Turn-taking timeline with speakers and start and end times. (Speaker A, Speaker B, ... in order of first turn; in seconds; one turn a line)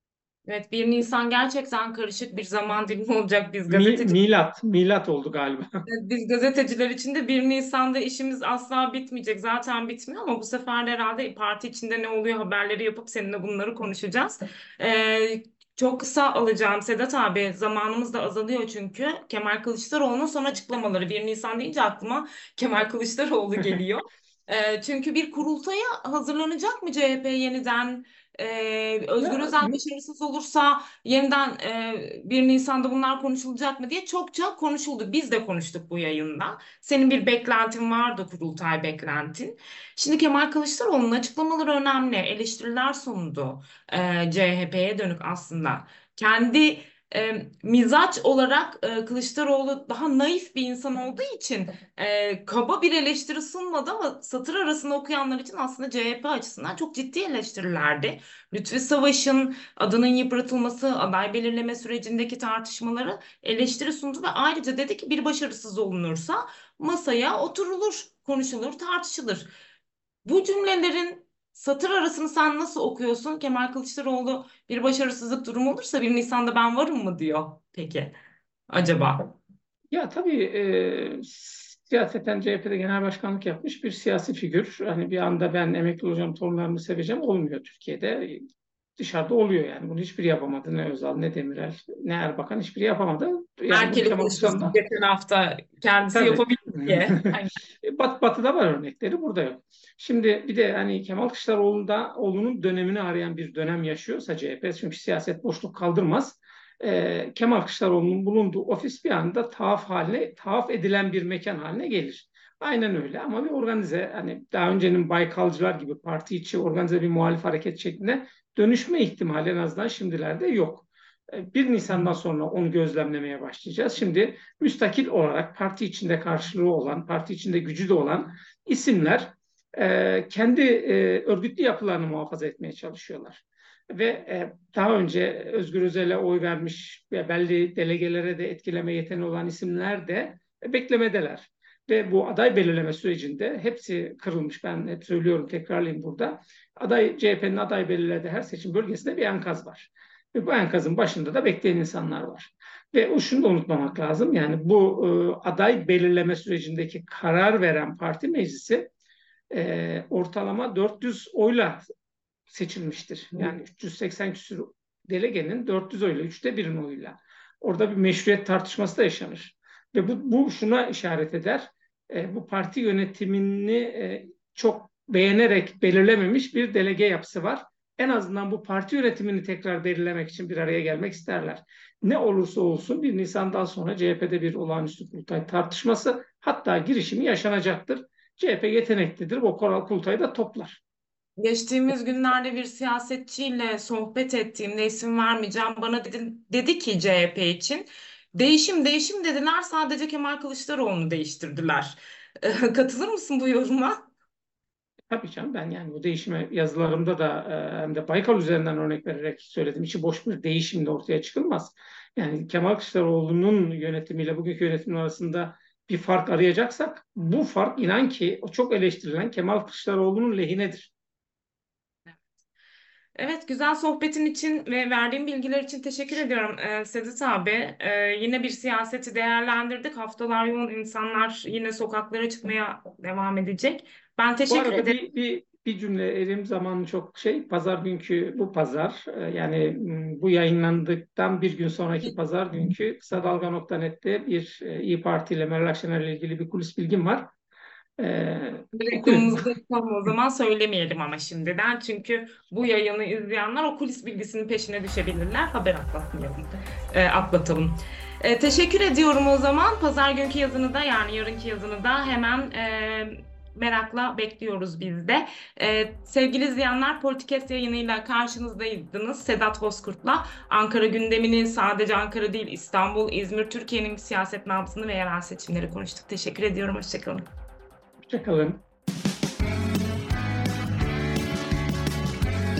Speaker A: 0.5-4.2
Speaker B: 3.7-5.8
Speaker A: 5.9-69.5
Speaker B: 29.2-29.8
Speaker A: 70.2-78.1
Speaker A: 78.7-79.3
Speaker B: 79.9-88.4
Speaker B: 89.0-94.8
Speaker A: 93.7-97.5
Speaker B: 96.1-158.9
Speaker B: 159.5-161.8
Speaker B: 162.5-190.8
Speaker A: 191.4-204.1
Speaker B: 205.1-220.9
Speaker A: 223.2-235.0
Speaker B: 234.5-247.3
Speaker B: 248.0-249.4
Speaker A: 248.7-277.3
Speaker B: 278.1-278.6